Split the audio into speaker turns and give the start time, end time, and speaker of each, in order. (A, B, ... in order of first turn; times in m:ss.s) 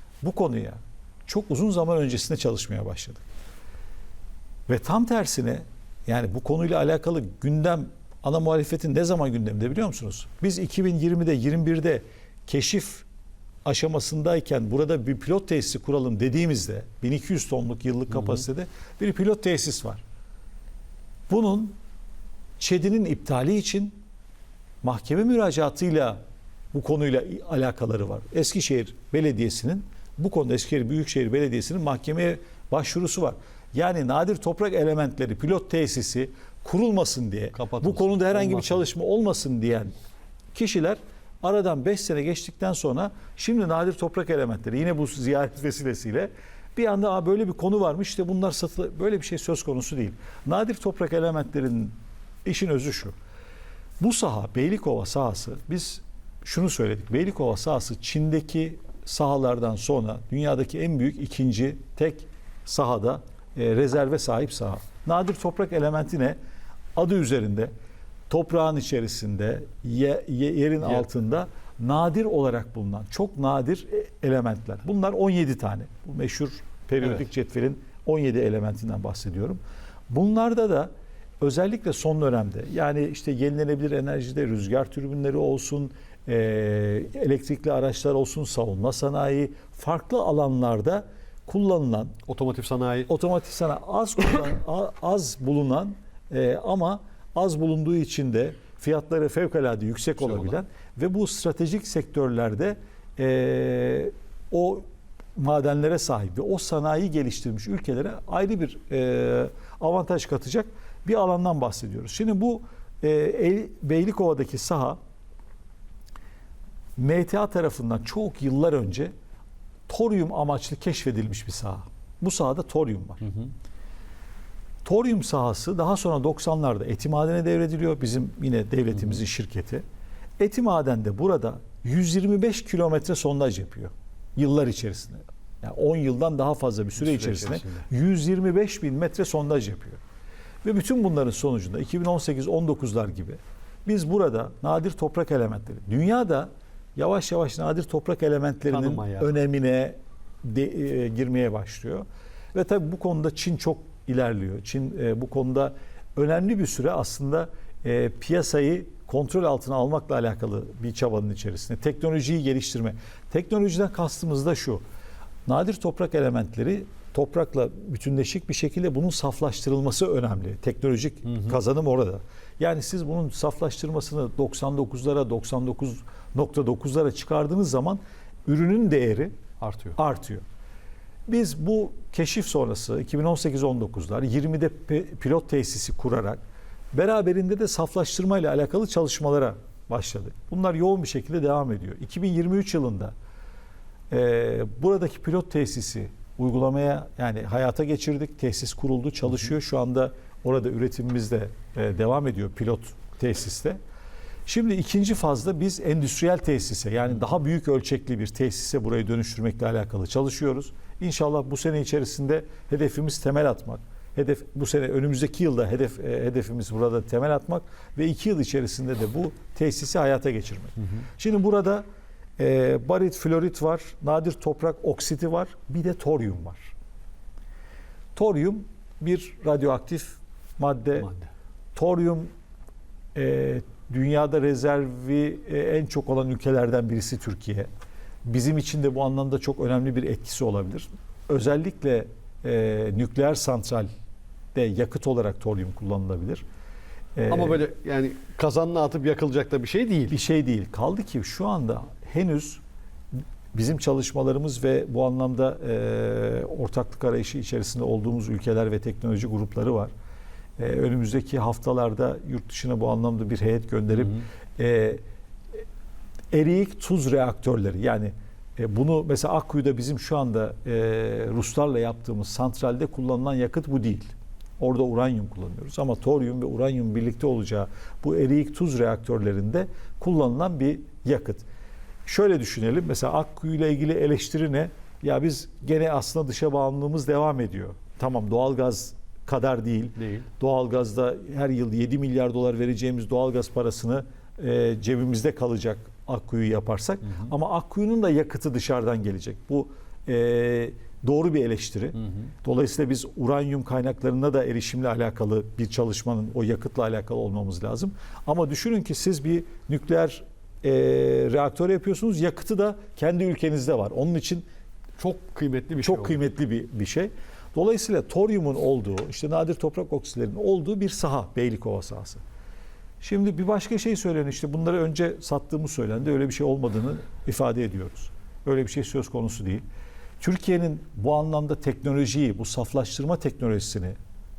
0:00.2-0:03.2 A
0:04.7-0:13.0 A
0:13.6-0:20.0 A
0:21.3-0:21.8 A
0:22.6-0:24.0 A
0:24.8-0:26.2 A
0:26.7-0:39.9 A
0:37.5-0:38.9 B
0:40.5-0:53.1 A
0:54.0-1:06.4 A
1:07.0-1:07.7 A
1:08.3-1:20.9 A
1:21.4-1:32.2 A
1:32.3-1:33.1 B
1:33.1-1:55.0 A
1:40.2-1:40.5 B
1:57.0-1:59.1 A
1:59.9-2:03.4 A
2:04.8-2:09.8 A
2:10.4-2:20.0 A
2:17.0-2:17.8 B
2:20.6-2:44.8 A
2:28.7-2:29.3 B
2:45.5-2:59.3 A
2:59.6-3:00.0 B
3:00.0-3:00.4 A
3:01.3-3:06.4 A
3:06.9-3:13.1 A
3:14.1-3:23.8 A
3:24.5-3:41.8 A
3:42.4-3:46.7 A
3:48.2-3:51.1 A
3:51.0-3:51.3 B
3:51.7-3:52.3 A
3:53.2-3:57.7 A
3:58.2-4:03.9 A
4:04.5-4:06.4 A
4:07.2-4:07.6 A
4:07.3-4:10.2 B
4:10.1-4:12.6 A
4:13.5-4:19.9 A
4:20.6-4:25.0 A
4:26.3-4:41.4 A
4:42.0-5:14.5 A
4:50.0-4:50.3 B
5:15.0-5:16.2 B
5:15.8-5:22.2 A
5:23.0-5:29.6 A
5:30.2-5:34.0 A